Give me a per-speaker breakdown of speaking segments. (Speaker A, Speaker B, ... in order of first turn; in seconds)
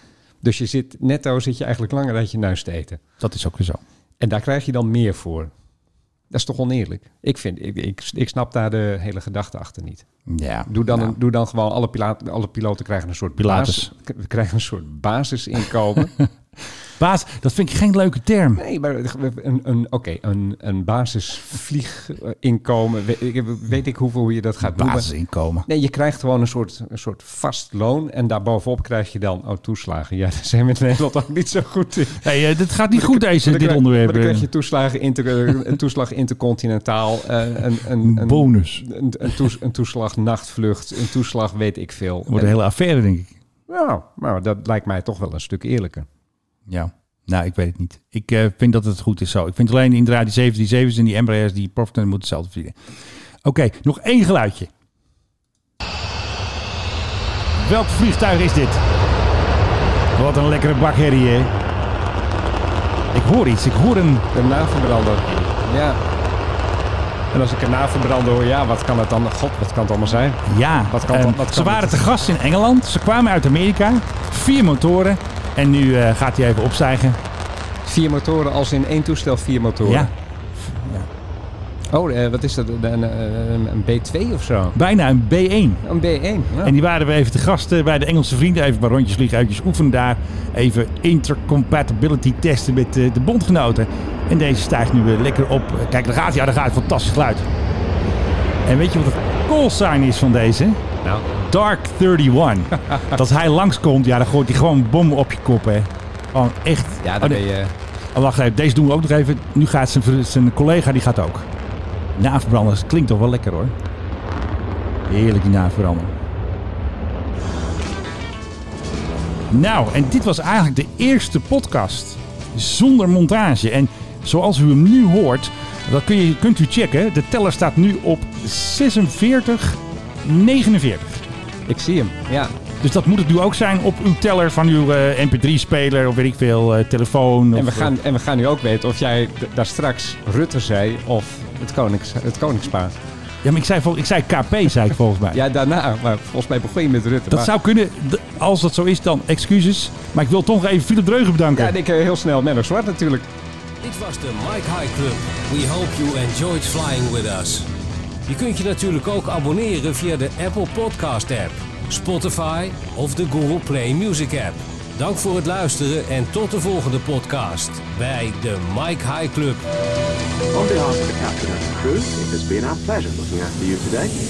Speaker A: 0.4-3.0, 4.2-5.5, 6.3-10.0, 10.7-16.1, 18.6-25.1, 25.6-32.2, 32.9-42.5, 43.7-46.1, 64.3-66.0, 67.3-72.0, 77.8-80.1, 81.9-84.8, 85.8-86.7, 107.0-107.7, 131.7-132.5, 137.5-142.9, 145.3-147.5, 151.5-153.3
Speaker B: 3.2-3.8, 10.3-11.1, 13.4-13.8, 17.0-18.6, 24.6-25.6, 32.2-34.5, 38.0-38.8, 42.3-43.3, 46.7-52.8, 53.4-54.7, 57.5-58.8, 60.1-61.5, 63.1-64.2, 70.5-77.2, 79.8-81.1, 84.7-85.8, 86.6-97.5, 98.6-100.8, 101.3-107.4, 108.1-111.5, 112.1-113.7, 115.1-116.1, 119.5-131.2, 132.8-137.9, 143.4-145.4, 147.3-151.7
Speaker C: 153.8-157.7, 158.3-169.6
Speaker D: 170.5-174.1